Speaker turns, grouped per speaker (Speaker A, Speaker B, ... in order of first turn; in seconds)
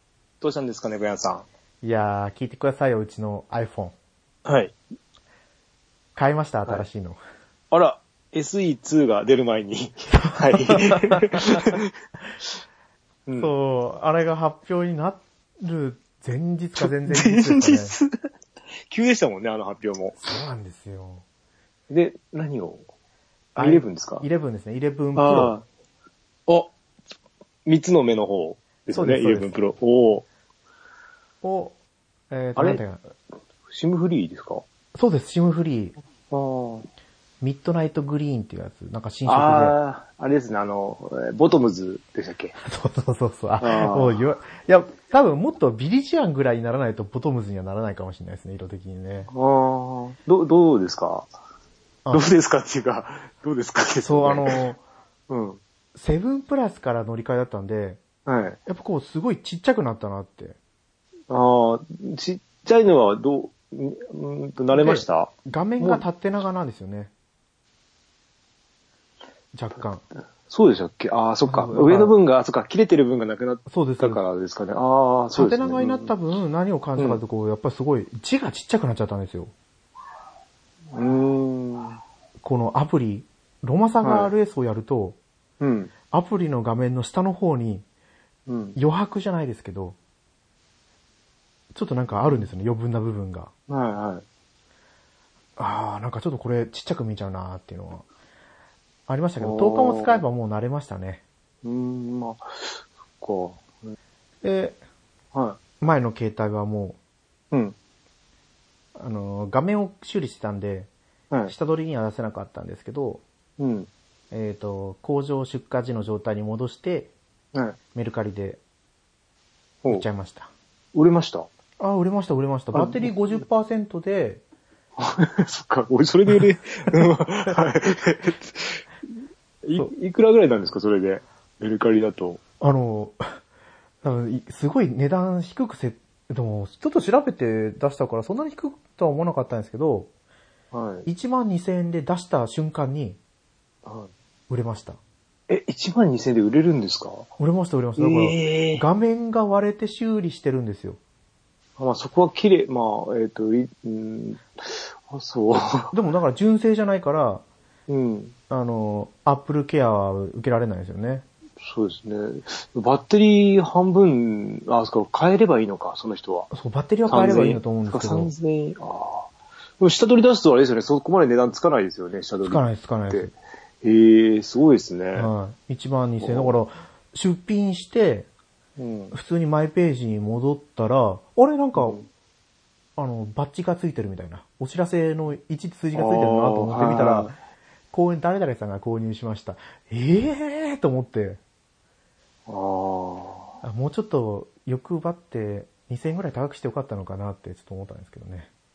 Speaker A: 0.4-1.4, 4.4-4.7, 7.7-11.9, 16.8-18.1, 18.9-20.2, 21.9-22.8, 23.5-24.2, 25.1-25.6, 27.6-30.2, 32.5-32.8, 33.7-34.6, 36.3-36.9, 39.2-42.5, 43.6-44.2, 49.3-51.3, 52.1-54.6, 55.3-55.6, 58.2-58.6, 61.3-66.0, 70.5-76.1, 80.9-82.0, 84.0-84.3, 85.6-85.9, 88.5-88.8, 93.7-94.2, 99.4-100.2, 101.6-104.0, 105.3-105.6, 113.6-113.9, 120.9-121.5, 122.7-123.1, 125.0-128.8, 129.6-132.4, 140.7-141.1, 143.8-144.1, 145.5-147.3, 148.0-148.8, 151.8-155.9, 157.9-158.3, 161.6-166.5, 167.1-175.3, 176.2-176.5, 178.8-179.1, 181.8-182.1, 185.9-187.3, 192.5-193.5
Speaker B: 1.8-3.9, 6.2-7.2, 10.2-11.7, 13.4-17.9, 20.2-21.2, 23.6-25.5, 28.9-29.6, 31.4-31.8, 32.3-33.1, 34.9-36.0, 37.4-39.8, 42.6-49.3, 54.0-54.8, 55.9-58.0, 58.7-60.6, 64.7-67.1, 69.5-70.0, 71.5-72.1, 73.7-74.2, 75.3-79.5, 82.4-85.2, 86.1-87.8, 88.8-90.0, 91.7-93.5, 95.6-98.0, 99.1-101.2, 104.4-104.8, 105.8-107.0, 109.0-110.9, 111.5-113.2, 114.3-117.1, 117.9-118.6, 119.9-120.5, 121.8-124.4, 132.6-133.2, 134.0-140.1, 141.1-143.2, 144.5-145.0, 147.4-151.0, 155.9-157.4, 158.5-161.2, 166.5-168.3, 172.4-173.3, 175.1-178.3, 179.1-182.0, 183.0-187.3, 187.9-191.4, 193.6-198.5